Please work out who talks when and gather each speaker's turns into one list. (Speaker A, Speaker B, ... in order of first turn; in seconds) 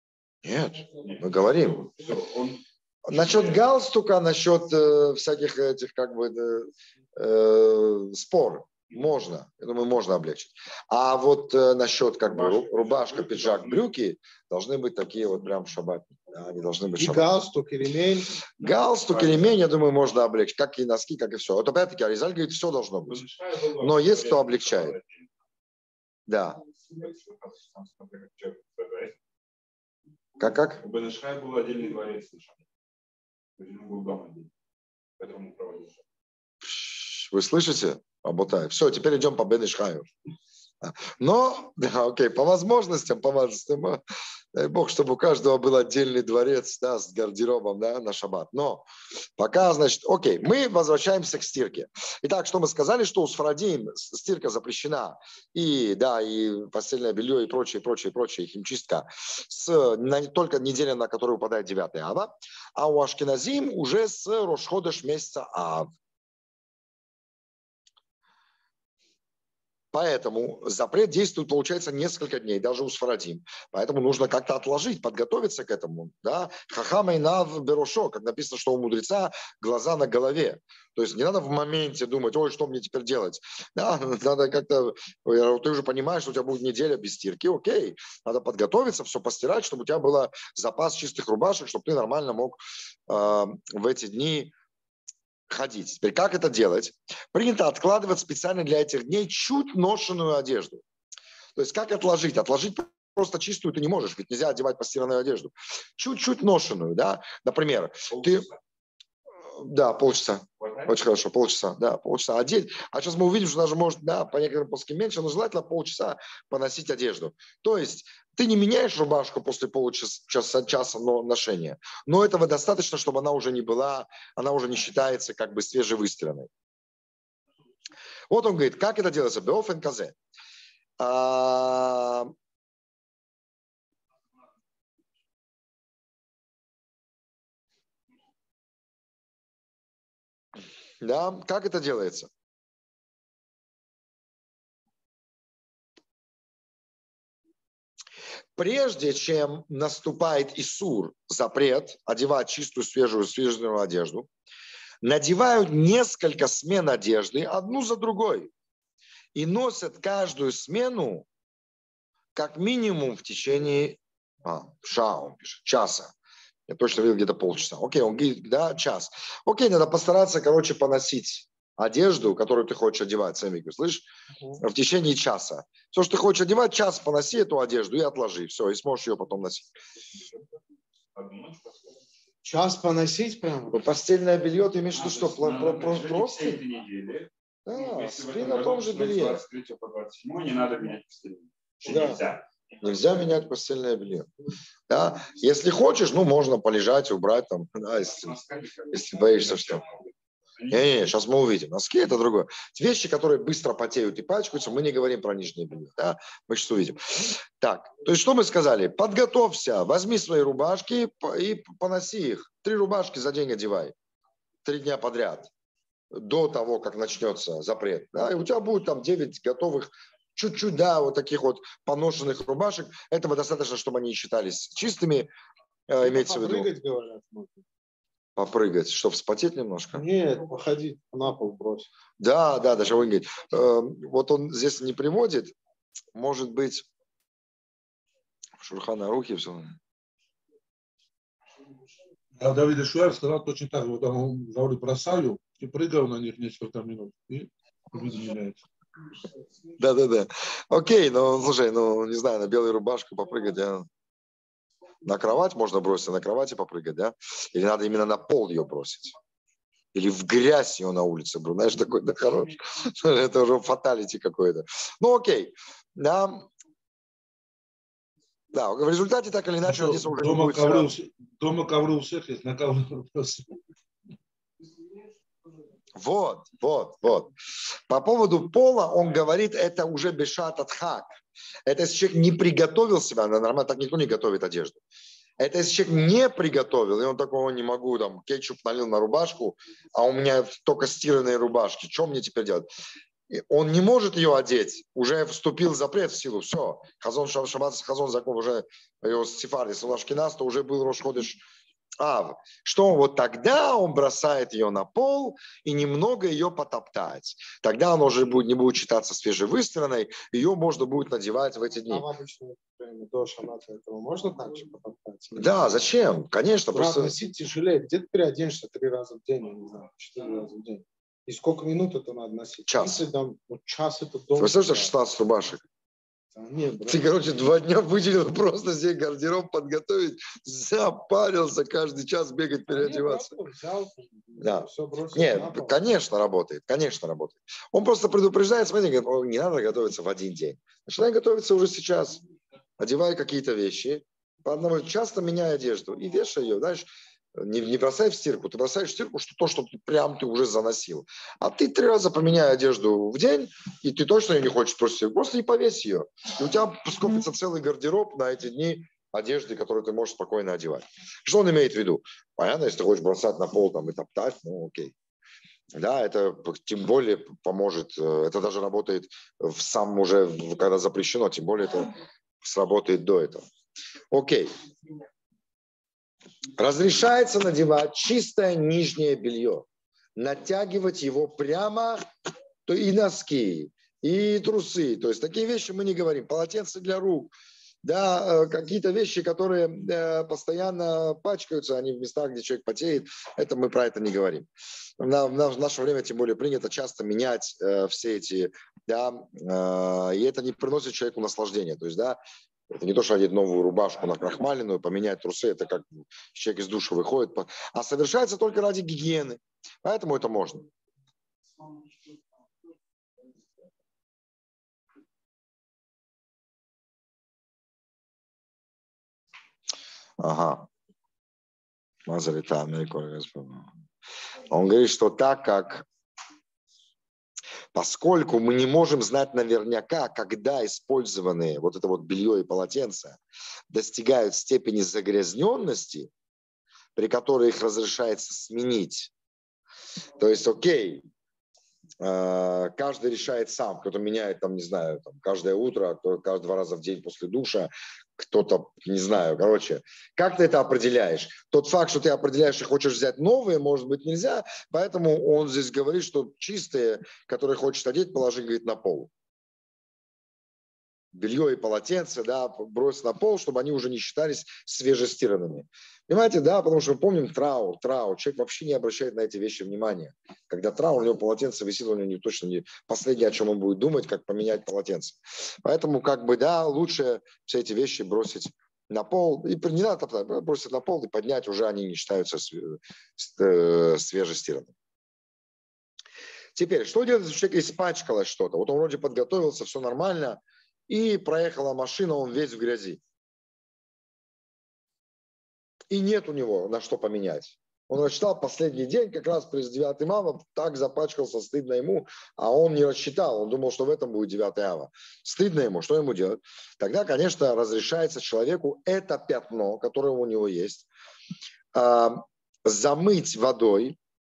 Speaker A: 0.4-1.9, 3.1-17.3, 18.6-23.2, 23.8-24.9, 26.3-26.6, 30.4-30.8, 36.6-40.1, 40.8-44.0, 44.5-48.8, 49.4-65.9, 69.9-94.5, 95.5-100.8, 101.5-108.5, 109.5-126.5, 128.3-130.1, 131.0-132.3, 141.0-142.3, 148.6-154.3, 155.0-158.5, 159.3-161.2, 162.3-166.1, 166.7-174.1, 174.6-179.7, 183.7-186.6, 187.7-189.4, 191.8-192.3, 192.8-194.3, 194.9-198.4, 198.9-199.8, 200.7-213.9, 214.6-215.5, 216.1-225.3, 225.9-226.7, 228.3-230.0, 232.2-235.5, 236.1-236.8, 238.6-239.7, 249.8-253.9, 255.0-259.1, 259.9-266.5, 268.5-270.9, 275.9-277.3, 277.9-284.8, 285.4-292.7, 293.3-301.4, 302.0-312.1, 315.4-317.1, 322.6-323.1, 324.4-325.6, 326.9-333.3, 334.4-342.2, 342.8-364.9, 365.7-373.4, 374.1-374.5, 376.6-382.0, 382.6-387.3, 387.8-394.5, 395.0-402.2, 402.7-410.6, 420.2-420.7, 422.1-423.7, 424.5-425.9, 427.7-433.2, 433.7-436.1, 436.9-439.1, 440.2-441.1, 442.0-459.1, 461.1-484.7, 486.6-493.0, 495.9-510.9, 511.7-514.0
Speaker B: 1.0-3.6, 12.2-13.9, 18.6-19.7, 23.0-25.3, 26.9-29.1, 30.8-32.6, 33.6-34.5, 35.2-36.0, 108.1-108.6, 110.6-111.0, 181.1-182.0, 184.9-192.9, 198.0-200.9
Speaker C: 17.0-18.4, 182.4-183.8, 226.0-227.6, 229.9-231.9, 311.9-315.8, 316.7-324.9, 326.3-327.1, 332.7-336.0
Speaker D: 242.4-248.6, 269.6-273.6